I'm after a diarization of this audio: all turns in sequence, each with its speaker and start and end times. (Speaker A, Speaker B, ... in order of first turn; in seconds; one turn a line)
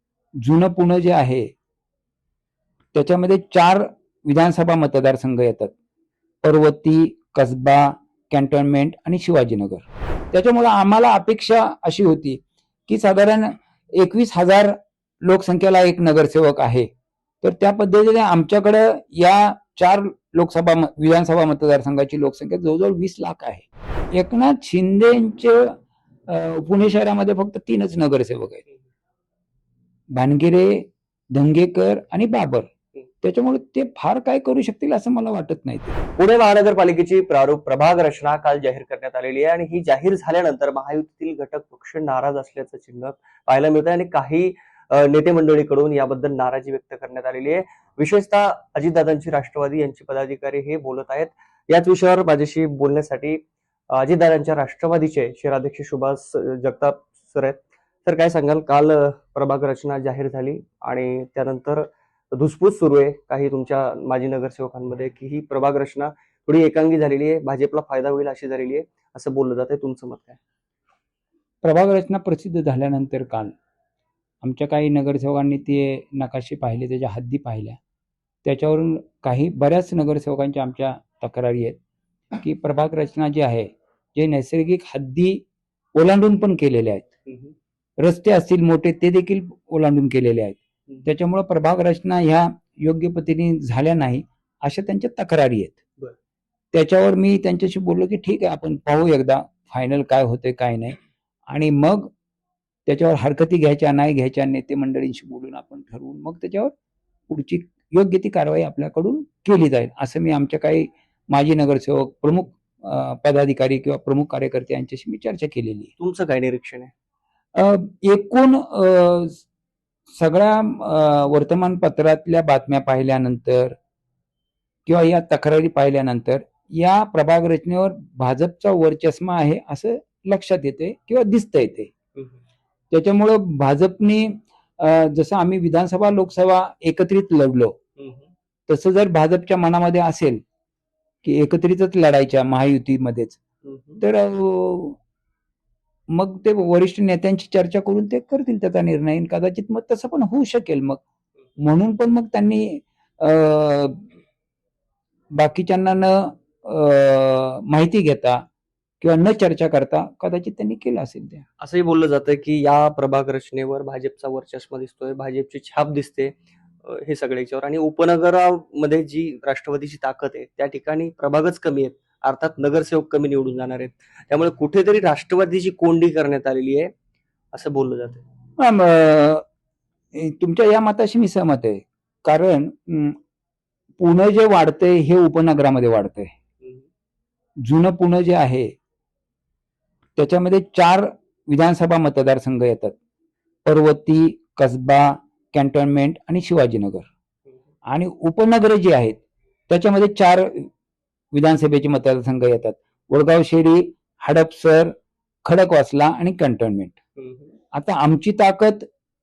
Speaker A: 0.4-1.5
Speaker A: 2.9-5.7
Speaker A: 6.4-16.9
Speaker A: 17.4-25.7
Speaker A: 26.3-28.6
Speaker A: 30.1-32.7
Speaker A: 33.2-36.0
Speaker B: 36.2-53.4
Speaker B: 54.0-70.4
Speaker A: 71.6-73.5
Speaker A: 74.4-77.8
Speaker A: 78.4-81.8
Speaker A: 82.4-85.4
Speaker A: 86.0-87.1
Speaker B: 87.3-87.5
Speaker A: 88.0-95.8
Speaker A: 96.7-101.0
Speaker A: 101.5-102.1
Speaker A: 102.9-106.7
Speaker A: 107.3-115.9
Speaker B: 116.0-116.9
Speaker A: 117.6-119.4
Speaker A: 120.2-123.8
Speaker A: 124.9-131.9
Speaker A: 132.9-137.7
Speaker B: 138.0-138.3
Speaker A: 138.7-140.4
Speaker A: 141.2-143.4
Speaker B: 143.6-144.0
Speaker A: 144.0-145.0
Speaker A: 146.2-151.0
Speaker A: 151.6-154.1
Speaker A: 155.4-158.4
Speaker A: 159.0-161.4
Speaker B: 161.6-176.9
Speaker B: 177.5-178.2
Speaker A: 178.6-179.4
Speaker A: 180.1-183.2
Speaker A: 184.0-186.3
Speaker A: 187.7-188.7
Speaker A: 190.2-192.9
Speaker A: 193.6-197.1
Speaker A: 197.9-200.7
Speaker A: 201.3-204.9
Speaker A: 205.5-206.9
Speaker B: 207.2-207.5
Speaker A: 207.7-208.9